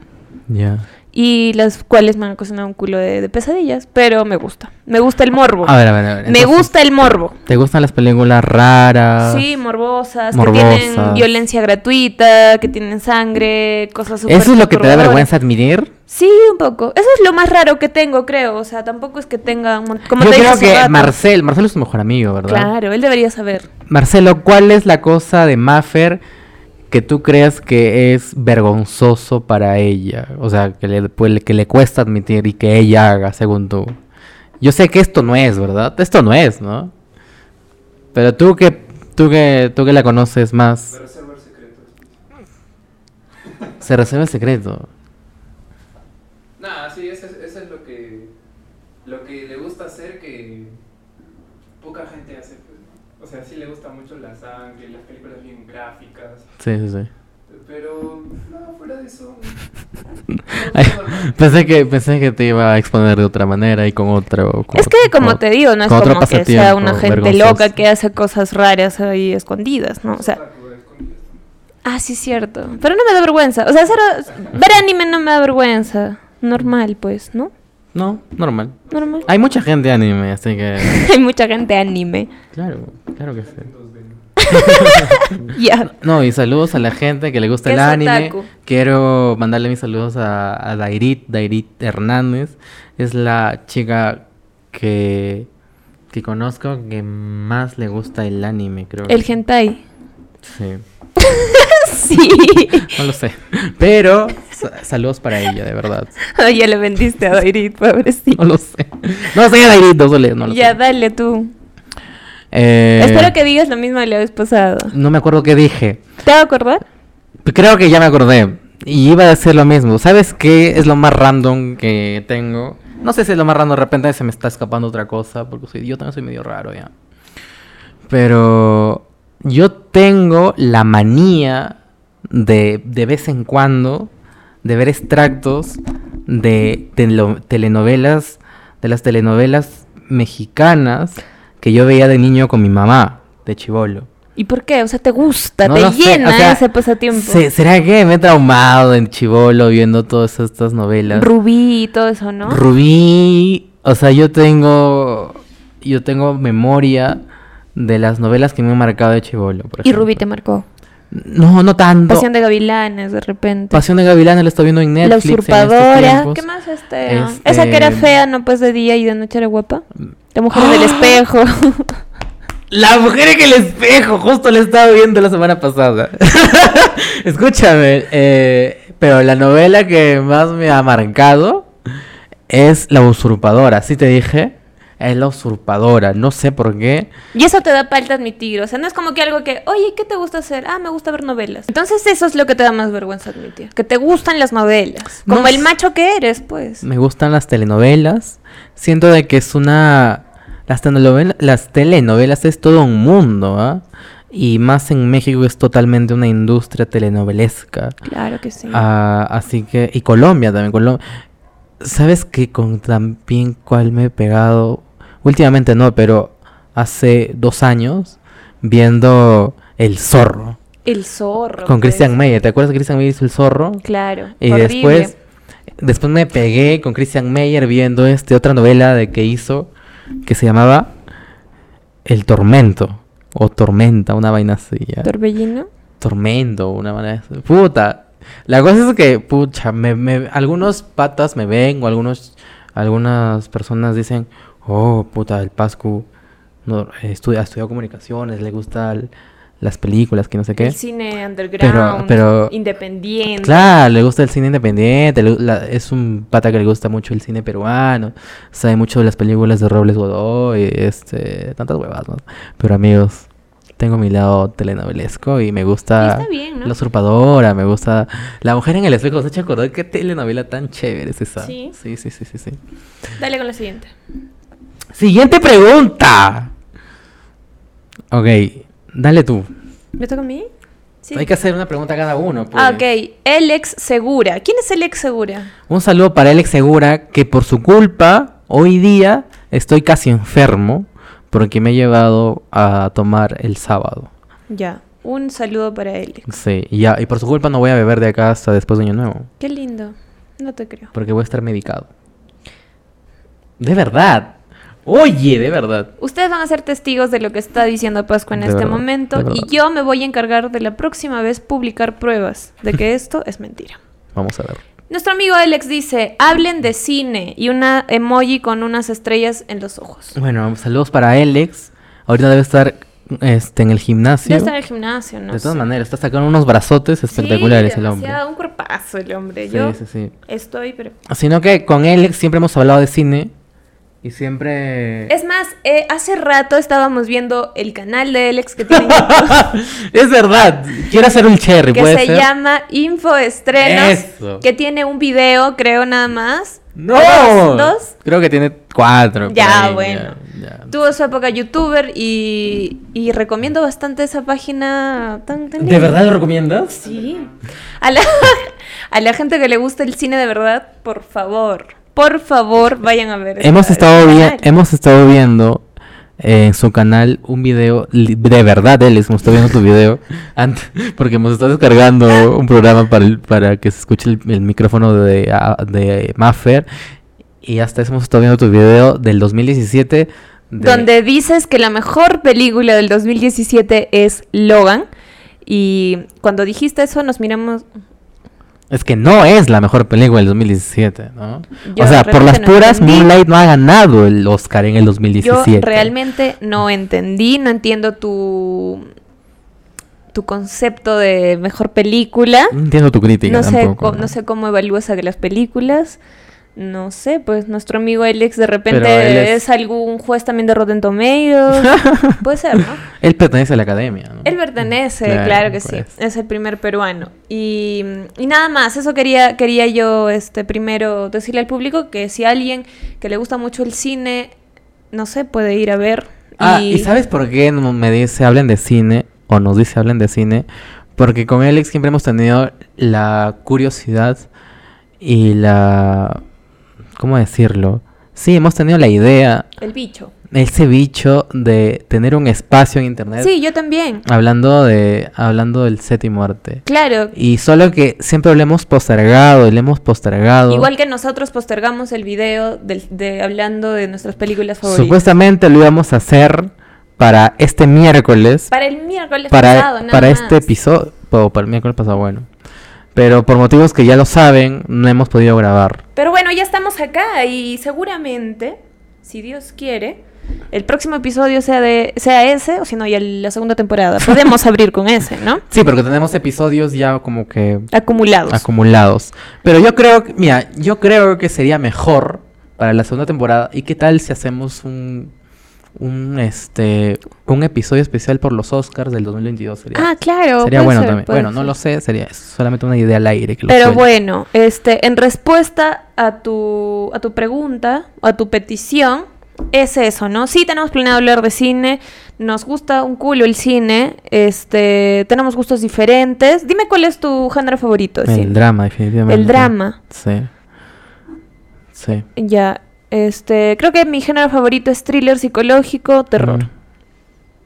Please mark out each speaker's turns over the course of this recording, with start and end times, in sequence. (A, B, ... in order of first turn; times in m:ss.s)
0:00.5-0:00.8 A
0:01.1-0:07.4 B
0:05.6-0:06.7 A
0:07.4-0:09.4 A
0:09.2-0:15.3 B
0:10.3-0:11.3 A
0:14.3-0:15.9 A
0:16.1-0:21.1 B
0:20.2-0:22.7 A
0:22.5-0:23.7 B
0:23.9-0:26.2 A
0:26.9-0:34.0 A
0:34.6-0:36.9 A
0:38.1-0:41.0 A
0:40.9-0:42.2 C
0:43.8-0:44.9 A
0:46.6-0:48.3 C
0:49.0-0:50.8 C
0:51.8-0:56.5 C
0:56.6-0:57.1 A
0:57.5-0:59.6 C
1:00.4-1:01.6 C
1:00.5-1:07.7 A
1:04.7-1:10.4 B
1:10.1-1:11.4 C
1:11.8-1:17.5 B
1:17.9-1:21.0 A
1:18.9-1:19.3 C
1:18.9-1:19.3 B
1:20.8-1:22.3 B
1:22.5-1:23.7 A
1:23.4-1:24.3 C
1:24.4-1:25.9 B
1:24.5-1:35.5 A
1:27.6-1:28.5 B
1:36.1-1:39.2 A
1:39.1-1:39.8 B
1:40.4-1:40.8 A
1:41.2-1:43.0 B
1:42.8-1:46.2 A
1:46.3-1:48.4 B
1:48.4-1:50.8 A
1:50.5-1:51.5 B
1:52.5-1:53.4 A
1:53.0-1:54.9 B
1:54.9-1:56.0 A
1:56.2-1:56.8 B
1:57.4-2:06.9 A
2:08.1-2:14.1 A
2:14.6-2:24.1 A
2:24.4-2:27.4 B
2:25.6-2:31.3 A
2:31.1-2:32.6 B
2:32.5-2:37.2 A
2:37.8-2:40.2 A
2:39.8-2:40.7 B
2:41.1-2:42.3 A
2:42.1-2:43.8 B
2:43.7-2:46.4 A
2:45.0-2:52.0 B
2:47.1-2:48.1 A
2:50.5-2:51.2 A
2:52.7-3:01.7 A
3:02.5-3:07.1 A
3:07.3-3:16.8 B
3:15.3-3:15.7 A
3:16.8-3:28.0 A
3:28.1-3:28.8 B
3:28.7-3:31.0 A
3:31.8-3:40.6 A
3:40.8-3:42.1 B
3:41.7-3:43.8 A
3:43.8-3:45.1 B
3:44.4-3:45.1 A
3:45.8-3:49.7 A
3:50.2-3:50.9 A
3:52.0-3:55.1 A
3:55.0-3:55.7 B
3:56.0-4:06.1 A
4:06.6-4:10.8 A
4:10.6-4:13.7 B
4:11.6-4:12.5 A
4:13.4-4:23.3 A
4:23.8-4:32.6 A
4:26.0-4:26.7 B
4:31.4-4:31.8 B
4:33.2-4:33.9 B
4:35.0-4:36.5 A
4:38.1-4:39.5 A
4:40.0-4:40.5 B
4:41.0-4:41.3 B
4:41.1-4:42.8 A
4:42.5-4:45.5 B
4:45.7-4:54.1 A
4:54.5-4:56.3 B
4:56.3-4:59.3 A
4:59.4-5:00.9 B
5:00.9-5:01.9 A
5:03.6-5:05.9 A
5:06.0-5:13.8 B
5:08.3-5:09.5 A
5:14.2-5:14.6 A
5:14.9-5:20.2 B
5:20.2-5:24.5 A
5:24.2-5:25.6 B
5:25.3-5:28.2 A
5:27.1-5:31.0 B
5:29.5-5:30.1 A
5:31.1-5:33.3 A
5:34.0-5:35.1 A
5:35.1-5:39.4 B
5:38.7-5:42.3 A
5:41.7-5:47.9 B
5:43.6-5:44.4 A
5:46.8-5:50.7 A
5:49.3-5:50.2 B
5:50.7-5:56.0 B
5:55.6-5:56.8 A
5:56.8-5:57.3 B
5:56.8-5:57.3 C
5:57.8-6:04.4 B
6:03.4-6:05.6 A
6:06.2-6:16.7 A
6:17.4-6:20.9 A
6:20.6-6:24.9 B
6:25.5-6:27.6 B
6:28.7-6:35.9 A
6:31.7-6:33.1 B
6:35.2-6:38.9 B
6:40.1-6:42.6 B
6:42.5-6:44.1 A
6:43.2-6:46.0 B
6:46.6-6:52.8 B
6:48.7-6:49.4 A
6:51.6-6:52.2 A
6:53.0-6:54.3 A
6:54.2-7:04.3 B
6:55.0-6:55.9 A
7:04.9-7:06.9 B
7:06.4-7:10.5 A
7:11.0-7:14.3 A
7:15.0-7:16.2 A
7:17.0-7:19.5 A
7:19.6-7:20.1 B
7:20.3-7:23.3 A
7:23.2-7:24.0 B
7:24.0-7:30.7 A
7:26.7-7:27.1 B
7:30.5-7:35.0 B
7:34.6-7:38.5 A
7:38.5-7:40.4 B
7:39.3-7:42.3 A
7:43.0-7:45.8 A
7:46.0-7:50.0 B
7:50.5-7:55.4 B
7:55.5-7:57.7 A
7:57.7-7:58.4 B
7:58.3-8:05.1 A
8:05.8-8:09.9 A
8:09.8-8:11.5 B
8:10.4-8:13.8 A
8:13.5-8:28.4 B
8:28.1-8:30.3 A
8:29.1-8:29.8 B
8:31.8-8:32.1 A
8:32.2-8:36.5 B
8:36.2-8:36.5 A